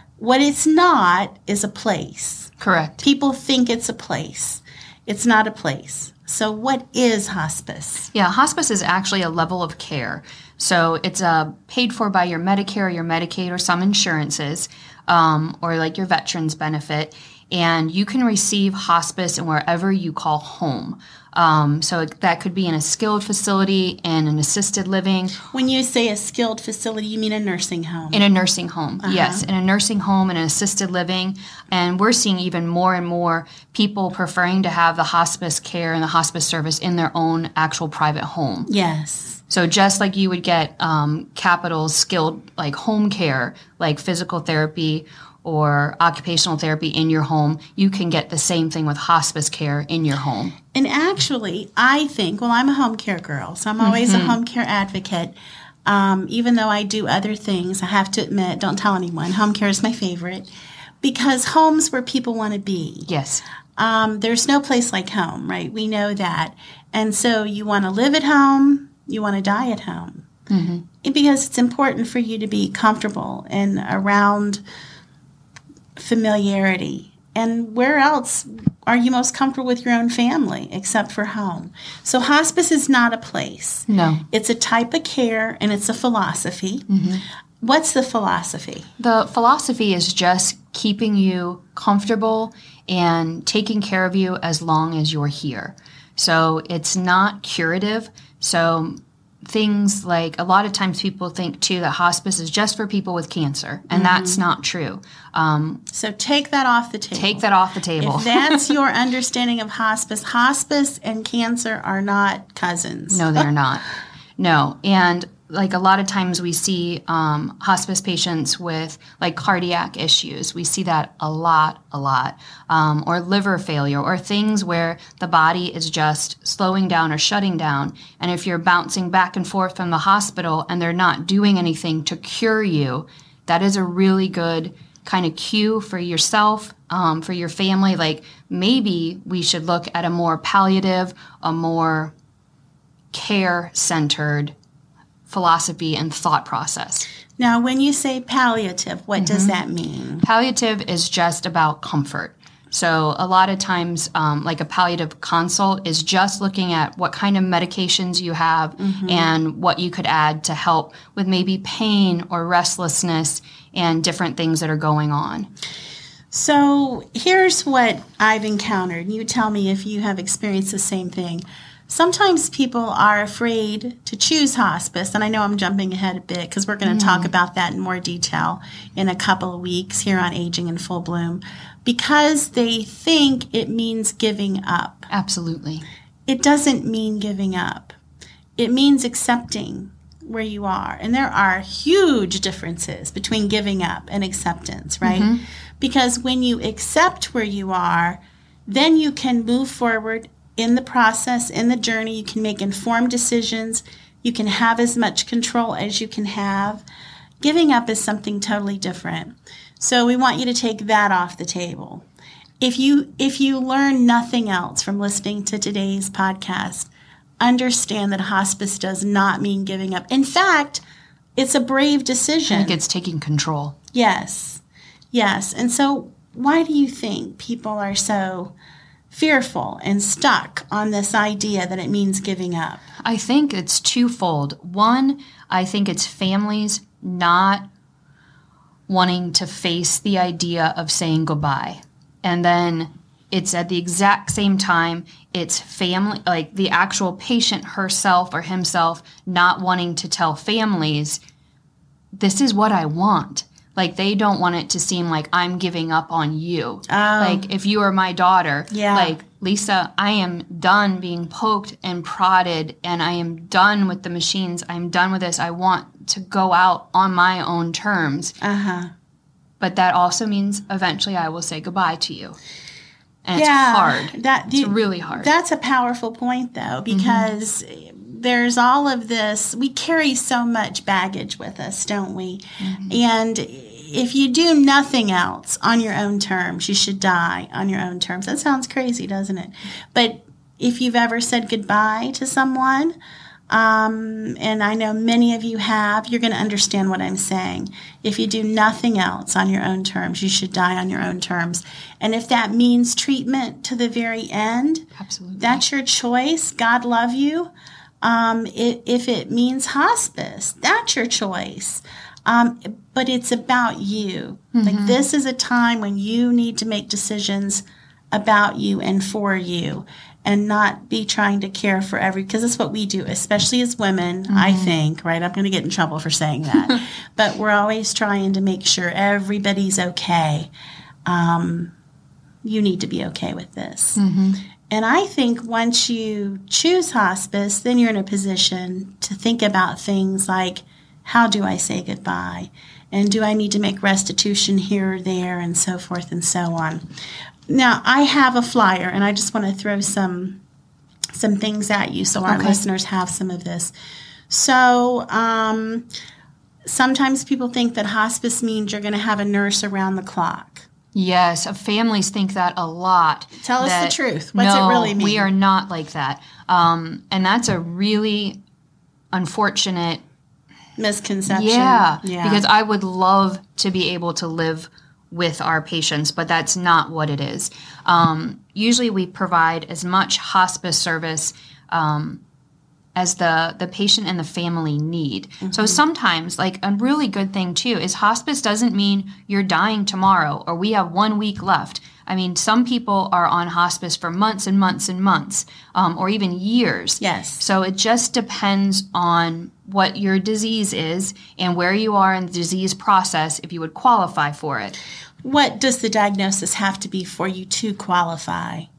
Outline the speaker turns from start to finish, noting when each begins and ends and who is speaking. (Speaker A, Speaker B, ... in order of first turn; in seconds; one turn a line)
Speaker A: 0.2-8.1
Speaker B: 2.6-3.0
Speaker B: 8.1-25.3
Speaker A: 25.5-28.2
Speaker B: 28.1-38.7
Speaker A: 29.0-29.4
Speaker A: 38.7-39.4
Speaker B: 39.5-50.5
Speaker A: 50.7-60.5
Speaker B: 53.8-54.4
Speaker A: 61.0-63.1
Speaker B: 63.1-63.4
Speaker A: 63.8-70.3
Speaker B: 70.5-70.8
Speaker A: 71.0-74.6
Speaker A: 76.0-86.9
Speaker B: 83.9-84.2
Speaker B: 86.9-87.2
Speaker A: 87.6-88.9
Speaker B: 89.0-105.8
Speaker A: 103.9-104.4
Speaker A: 105.9-107.4
Speaker B: 107.2-108.7
Speaker A: 108.0-113.5
Speaker B: 113.1-113.8
Speaker B: 114.4-142.1
Speaker B: 143.1-144.5
Speaker B: 145.3-147.1
Speaker A: 147.4-150.2
Speaker B: 149.2-149.5
Speaker B: 150.2-165.5
Speaker A: 158.8-159.3
Speaker A: 166.3-185.1
Speaker B: 176.8-177.3
Speaker B: 185.1-185.8
Speaker A: 186.3-187.9
Speaker A: 188.6-206.8
Speaker B: 195.0-195.4
Speaker A: 207.4-212.1
Speaker A: 212.6-216.9
Speaker A: 217.4-220.8
Speaker A: 221.4-222.8
Speaker B: 222.5-223.8
Speaker A: 223.9-228.5
Speaker A: 229.1-232.8
Speaker B: 233.0-237.7
Speaker B: 238.9-251.2
Speaker B: 252.1-268.4
Speaker A: 256.9-257.4
Speaker A: 258.7-259.1
Speaker A: 268.4-268.9
Speaker B: 269.6-272.4
Speaker B: 273.2-275.3
Speaker A: 273.4-292.9
Speaker B: 276.9-277.3
Speaker B: 282.6-283.0
Speaker A: 293.5-304.9
Speaker B: 305.0-305.6
Speaker A: 305.4-307.5
Speaker A: 308.0-330.5
Speaker B: 314.5-315.0
Speaker B: 324.3-324.7
Speaker A: 331.1-331.7
Speaker A: 332.4-334.0
Speaker B: 334.0-334.4
Speaker A: 334.7-346.9
Speaker A: 347.5-350.4
Speaker A: 351.1-353.7
Speaker B: 352.2-352.6
Speaker A: 354.3-355.9
Speaker A: 356.6-360.7
Speaker B: 360.9-368.4
Speaker A: 363.4-365.3
Speaker B: 369.1-370.0
Speaker A: 370.8-372.4
Speaker B: 371.3-382.2
Speaker B: 383.0-404.8
Speaker A: 385.4-385.8
Speaker A: 397.0-397.4
Speaker A: 405.2-408.7